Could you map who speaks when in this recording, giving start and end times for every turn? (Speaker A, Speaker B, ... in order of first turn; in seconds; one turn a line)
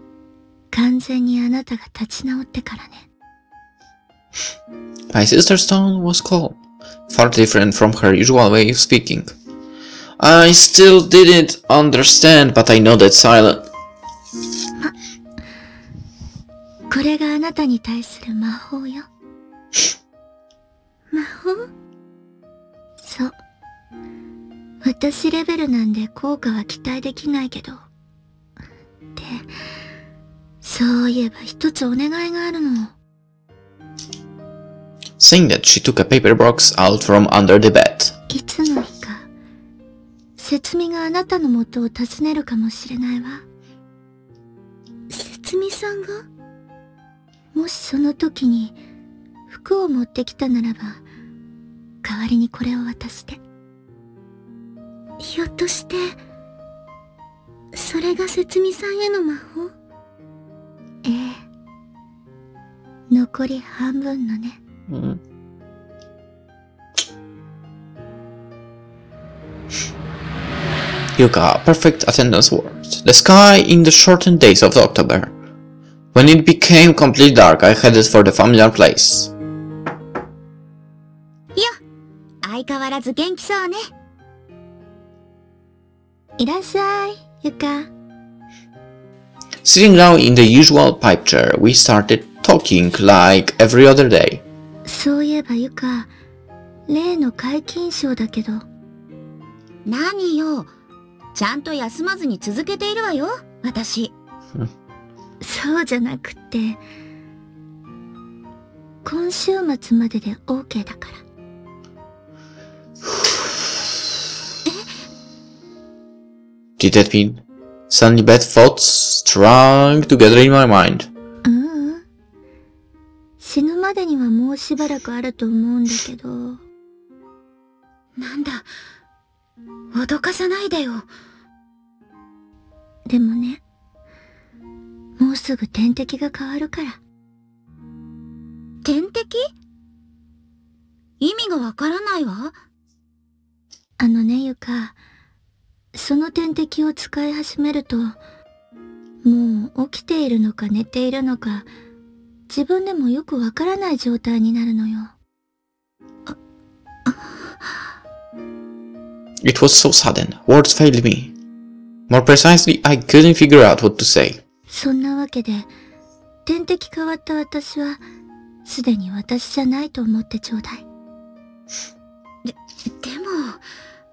Speaker A: 0.7-3.1
Speaker B: 5.1-6.6
Speaker B: 7.1-9.3
Speaker B: 10.2-13.7
Speaker A: 16.9-19.1
Speaker A: 21.1-21.6
Speaker A: 23.0-23.4
Speaker A: 24.8-27.8
Speaker A: 29.2-29.4
Speaker A: 30.6-32.9
Speaker B: 35.2-38.1
Speaker A: 38.3-39.3
Speaker A: 40.4-43.4
Speaker A: 47.5-48.8
Speaker A: 49.5-51.0
Speaker A: 52.0-53.4
Speaker A: 57.9-58.7
Speaker A: 61.0-61.4
Speaker A: 63.1-64.6
Speaker B: 64.9-65.2
Speaker B: 71.2-75.3
Speaker B: 76.1-79.3
Speaker C: 82.4-83.9
Speaker A: 86.4-87.9
Speaker B: 89.6-94.4
Speaker A: 94.8-96.1
Speaker A: 96.9-98.7
Speaker C: 99.8-100.7
Speaker C: 101.3-104.1
Speaker A: 105.4-106.8
Speaker A: 109.0-111.2
Speaker B: 116.8-121.1
Speaker A: 121.5-122.0
Speaker A: 123.4-126.6
Speaker C: 128.2-128.7
Speaker C: 129.9-131.0
Speaker A: 133.1-133.6
Speaker A: 135.2-137.0
Speaker C: 138.8-139.5
Speaker C: 141.2-142.6
Speaker A: 144.0-145.0
Speaker A: 145.9-148.2
Speaker A: 149.2-151.7
Speaker A: 152.5-155.1
Speaker B: 159.4-161.3
Speaker B: 162.1-164.4
Speaker A: 164.7-165.7
Speaker A: 166.5-168.0
Speaker A: 168.7-170.8
Speaker C: 172.4-173.6